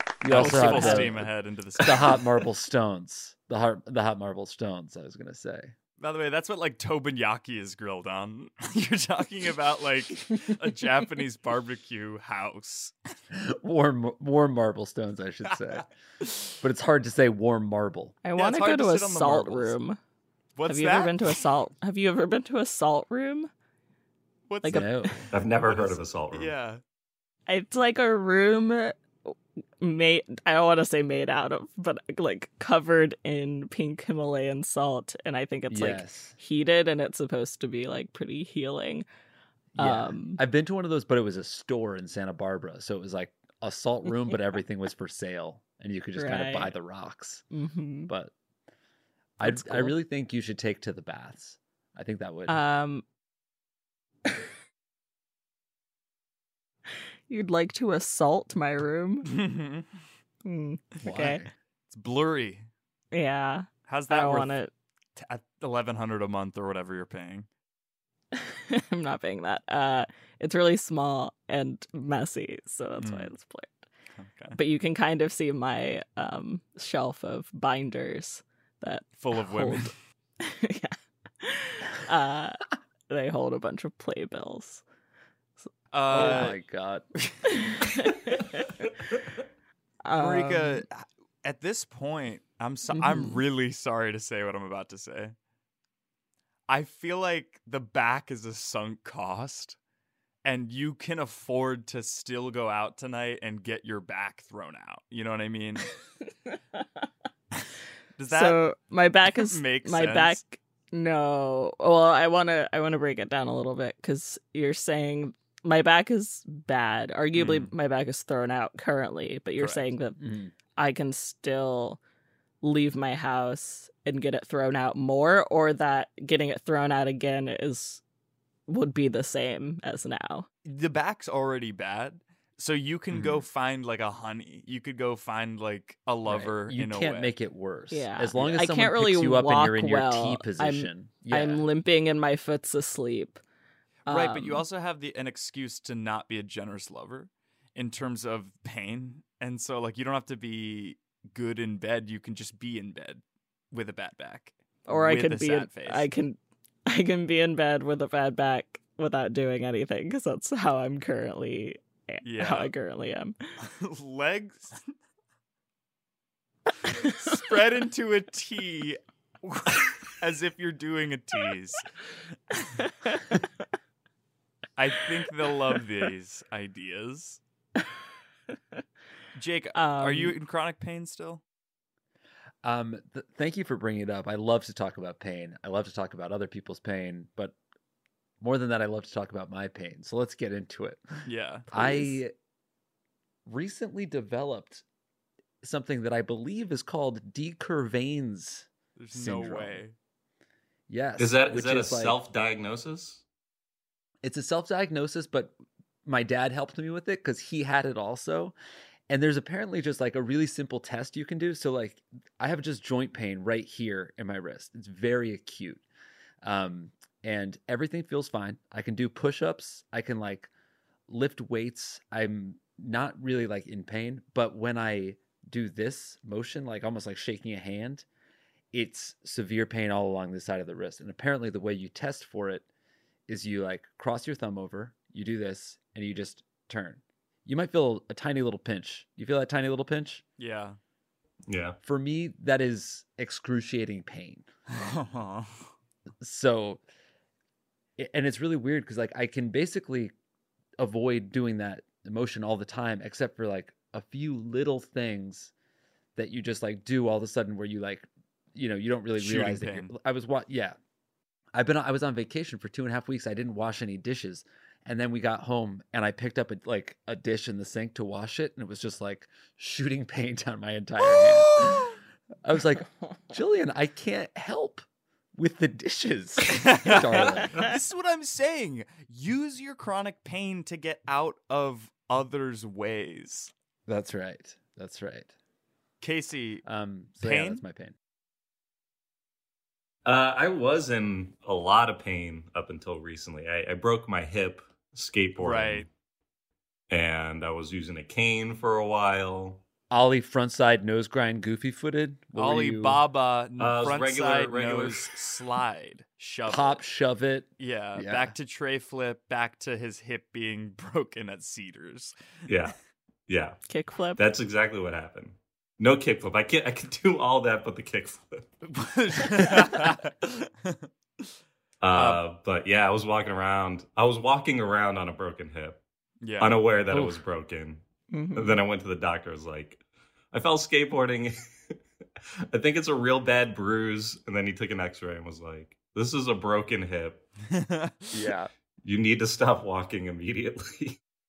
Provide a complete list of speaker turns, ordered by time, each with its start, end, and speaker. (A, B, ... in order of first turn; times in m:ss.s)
0:00.2-0:05.7 A
0:00.3-0:02.4 B
0:00.4-0:01.0 C
0:06.0-0:12.9 B
0:13.3-0:15.9 A
0:16.6-0:18.2 A
0:18.2-0:20.0 C
0:18.4-0:19.8 B
0:20.6-0:21.4 B
0:20.7-0:23.5 C
0:24.5-0:26.8 B
0:24.6-0:25.1 C
0:24.6-0:25.3 A
0:25.3-0:26.5 D
0:27.5-0:39.0 C
0:35.7-0:36.3 A
0:39.7-0:47.4 A
0:39.8-0:40.4 C
0:46.2-0:46.7 C
0:47.5-0:48.1 C
0:48.1-0:48.3 A
0:49.4-0:52.6 A
0:49.4-0:49.9 C
0:52.5-0:53.0 C
0:57.3-0:59.3 C
0:59.3-0:59.9 B
1:00.4-1:01.4 C
1:01.0-1:01.5 A
1:01.9-1:02.7 B
1:03.1-1:04.7 C
1:03.9-1:04.5 B
1:05.2-1:07.5 B
1:08.3-1:13.7 C
1:13.0-1:13.3 B
1:14.2-1:14.6 B
1:14.5-1:19.9 C
1:19.2-1:19.9 B
1:20.4-1:24.8 C
1:25.9-1:26.6 B
1:26.1-1:27.1 A
1:27.7-1:28.9 C
1:30.0-1:30.8 C
1:30.2-1:35.3 B
1:32.9-1:33.4 C
1:36.7-1:39.8 B
1:40.4-1:45.9 B
1:48.2-1:48.6 B
1:48.3-2:00.2 C
1:49.2-1:50.4 B
1:59.6-1:59.9 B
2:00.2-2:00.5 A
2:00.8-2:02.0 C
2:02.6-2:08.0 C
2:08.7-2:10.5 C
2:10.6-2:17.3 B
2:13.1-2:13.4 A
2:16.2-2:21.7 A
2:17.9-2:23.4 C
2:24.0-2:36.1 B
2:24.1-2:24.6 C
2:34.9-2:43.4 C
2:42.2-2:42.7 B
2:43.6-2:44.8 B
2:46.9-2:51.9 B
2:52.8-2:53.4 C
2:54.8-2:57.4 B
2:59.3-3:01.4 B
2:59.7-3:00.4 C
3:02.6-3:07.6 A
3:08.4-3:11.0 A
3:11.2-3:12.1 B
3:11.7-3:12.3 A
3:13.4-3:14.8 A
3:15.6-3:19.8 A
3:19.0-3:19.9 B
3:20.9-3:22.2 A
3:21.2-3:23.2 D
3:24.2-3:25.5 A
3:26.0-3:28.5 A
3:29.1-3:35.8 A
3:36.4-3:40.5 A
3:41.1-3:48.0 A
3:48.7-3:52.6 A
3:53.3-4:00.2 A
4:00.4-4:00.8 B
4:01.5-4:01.8 D
4:01.8-4:04.5 A
4:04.7-4:05.5 B
4:06.2-4:06.8 A
4:08.0-4:10.1 A
4:10.8-4:15.5 A
4:16.2-4:20.8 A
4:19.2-4:19.9 B
4:21.5-4:34.8 A
4:35.4-4:37.7 A
4:36.5-4:43.5 B
4:43.9-4:45.3 A
4:46.0-4:46.6 B
4:46.6-4:48.0 A
4:47.2-4:47.6 B
4:50.0-4:55.9 D
4:55.4-4:55.9 B
4:56.9-4:59.6 D
4:59.9-5:03.0 A
5:02.4-5:06.8 B
5:03.6-5:05.1 D
5:06.4-5:08.3 A
5:07.6-5:12.2 B
5:12.5-5:12.7 D
5:13.3-5:13.6 D
5:13.7-5:14.2 C
5:14.2-5:18.4 D
5:18.6-5:21.3 B
5:21.8-5:25.8 D
5:21.9-5:22.2 B
5:26.2-5:26.6 B
5:26.4-5:27.8 D
5:26.9-5:27.2 A
5:28.1-5:28.6 C
5:28.3-5:29.8 D
5:30.3-5:31.3 D
5:32.5-5:37.2 D
5:37.5-5:38.2 B
5:38.1-5:38.5 A
5:38.8-5:41.0 D